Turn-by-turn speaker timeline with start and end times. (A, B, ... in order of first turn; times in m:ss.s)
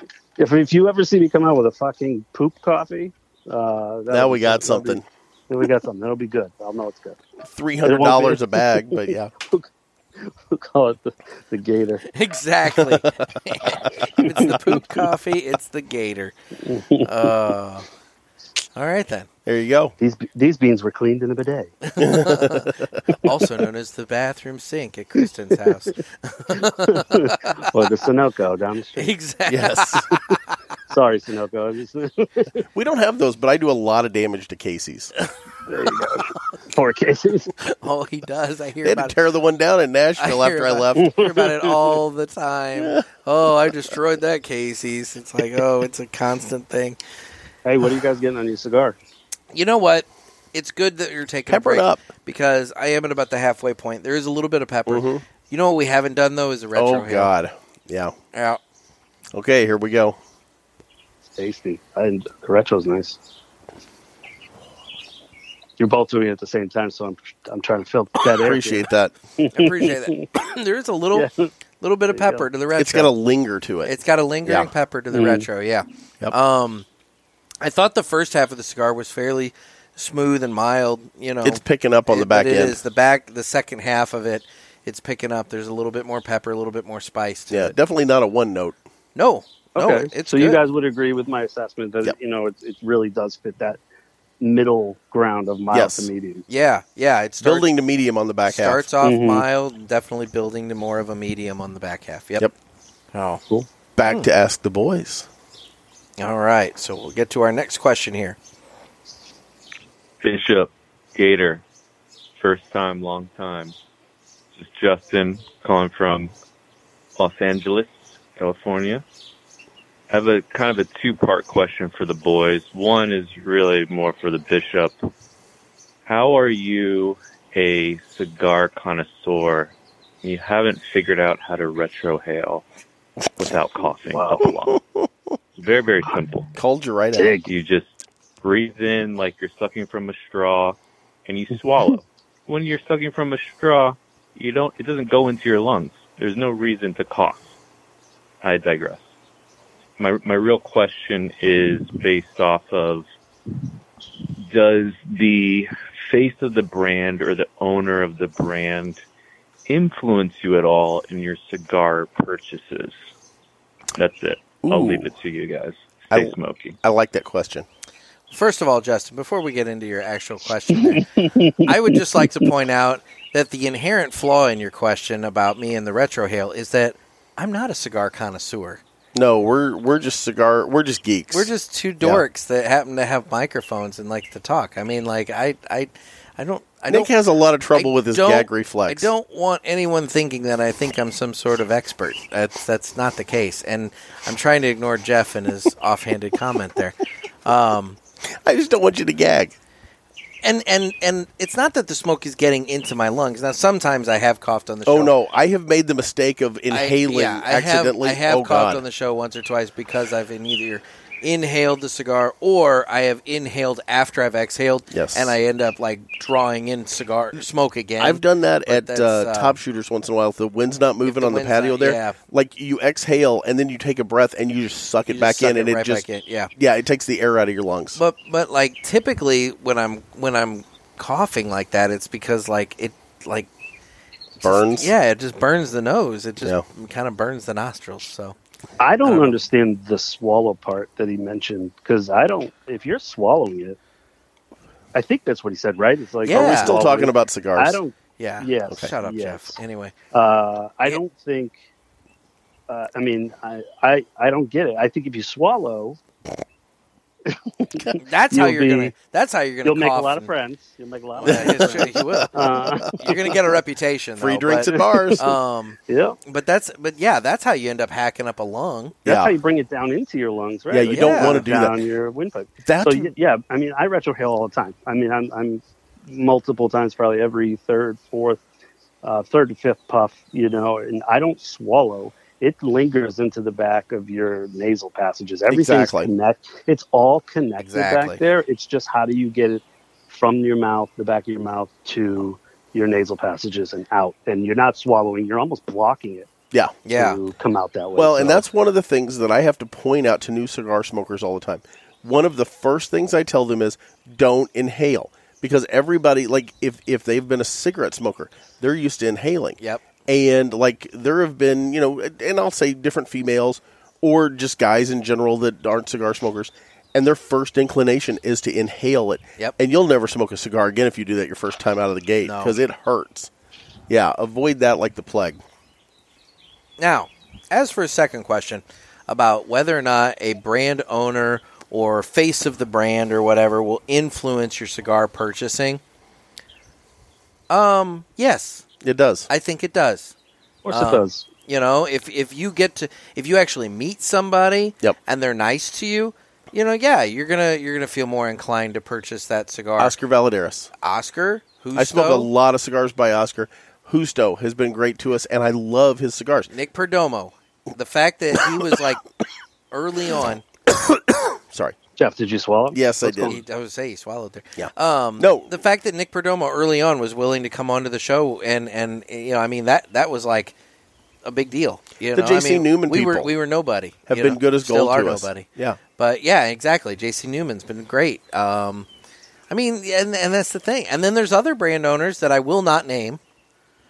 0:00.4-0:07.2 A
0:04.1-0:05.0 B
0:07.4-0:09.3 B
0:07.8-0:09.6 A
0:10.2-0:12.0 A
0:12.1-0:16.3 C
0:16.6-0:17.1 A
0:17.0-0:17.8 C
0:18.7-0:19.3 C
0:19.4-0:19.9 B
0:20.0-0:21.8 A
0:21.9-0:22.7 C
0:22.0-0:23.0 B
0:23.2-0:27.7 C
0:26.9-0:29.1 A
0:29.0-0:30.4 C
0:29.5-0:30.1 B
0:30.9-0:32.6 A
0:32.7-0:35.1 B
0:35.7-0:37.5 A
0:37.8-0:39.2 C
0:38.8-0:41.1 B
0:40.2-0:47.0 C
0:41.0-0:41.3 A
0:42.8-0:43.0 B
0:47.6-0:49.0 A
0:49.5-0:57.3 C
0:51.5-0:52.0 B
0:54.9-0:55.2 B
0:56.7-0:58.1 B
0:58.3-0:58.6 C
0:59.3-1:00.2 B
1:01.3-1:03.2 A
1:05.8-1:08.9 A
1:08.2-1:09.1 B
1:09.4-1:10.2 A
1:09.5-1:11.3 C
1:11.1-1:11.5 A
1:11.8-1:13.1 C
1:12.1-1:12.4 A
1:12.8-1:13.9 B
1:13.8-1:16.8 C
1:15.1-1:15.5 A
1:17.6-1:27.7 C
1:21.4-1:22.8 B
1:27.5-1:28.8 B
1:29.1-1:30.6 C
1:29.8-1:33.8 A
1:34.4-1:36.4 A
1:35.7-1:36.1 B
1:36.5-1:37.7 C
1:37.4-1:38.8 B
1:38.5-1:42.5 C
1:39.0-1:39.4 A
1:43.1-1:43.4 C
1:44.0-1:45.3 B
1:46.2-1:48.4 C
1:50.2-1:51.6 D
1:52.4-1:53.8 D
1:54.5-1:56.3 D
1:57.2-1:59.0 D
2:00.1-2:05.0 D
2:06.0-2:12.6 D
2:13.4-2:14.8 D
2:14.1-2:14.4 A
2:15.6-2:16.5 D
2:16.6-2:17.4 B
2:17.1-2:17.5 A
2:17.4-2:27.5 D
2:28.4-2:29.0 D
2:30.0-2:33.0 D
2:34.5-2:39.0 D
2:39.7-2:42.9 D
2:43.9-2:46.8 D
2:44.6-2:45.1 B
2:46.1-2:47.6 B
2:48.3-2:58.8 C
2:51.2-2:51.6 A
2:59.1-3:01.5 B
3:01.3-3:07.1 C
3:06.9-3:09.1 B
3:07.7-3:18.0 C
3:18.3-3:19.5 B
3:20.4-3:25.1 C
3:24.9-3:28.8 B
3:26.7-3:39.6 C
3:34.9-3:35.3 B
3:38.0-3:46.0 B
3:41.0-3:42.2 C
3:45.1-3:46.5 C
3:46.6-3:48.0 B
3:48.0-3:53.5 C
3:54.4-3:58.3 C
3:54.4-3:54.9 B
3:58.8-4:03.8 A
3:59.0-3:59.4 C
4:04.9-4:09.6 A
4:06.2-4:06.8 C
4:06.3-4:07.8 B
4:08.2-4:09.9 C
4:10.1-4:11.5 A
4:12.7-4:16.0 A
4:17.2-4:18.9 A
4:18.0-4:20.3 C
4:19.6-4:23.0 A
4:21.2-4:29.0 C
4:21.2-4:23.1 B
4:24.2-4:25.2 B
4:24.7-4:25.2 A
4:25.9-4:26.2 A
4:29.0-4:29.3 B
4:29.0-4:38.4 A
4:30.7-4:31.8 B
4:31.0-4:31.4 C
4:32.6-4:33.1 B
4:39.0-4:56.3 A
4:45.5-4:46.1 B
4:47.6-4:48.2 C
4:56.8-4:57.2 C
4:56.9-4:58.4 A
4:58.0-5:23.3 B
5:09.6-5:09.8 C
5:22.2-5:22.6 C
5:23.9-5:25.4 B
5:26.8-5:35.8 C
5:37.5-5:38.6 C
5:38.8-5:39.3 B
5:39.3-5:40.1 C
5:40.6-5:41.2 A
5:40.7-5:49.9 C
5:49.8-5:50.7 B
5:50.8-5:52.3 C
5:51.7-5:56.5 B
5:56.5-5:59.0 C
5:58.4-5:58.8 B
5:59.7-6:00.4 C
6:00.7-6:01.8 B
6:02.0-6:03.4 A
6:02.7-6:03.4 B
6:03.2-6:10.5 C
6:04.6-6:05.6 B
6:11.2-6:18.9 C
6:12.1-6:13.3 B
6:14.1-6:15.8 B
6:19.5-6:23.2 C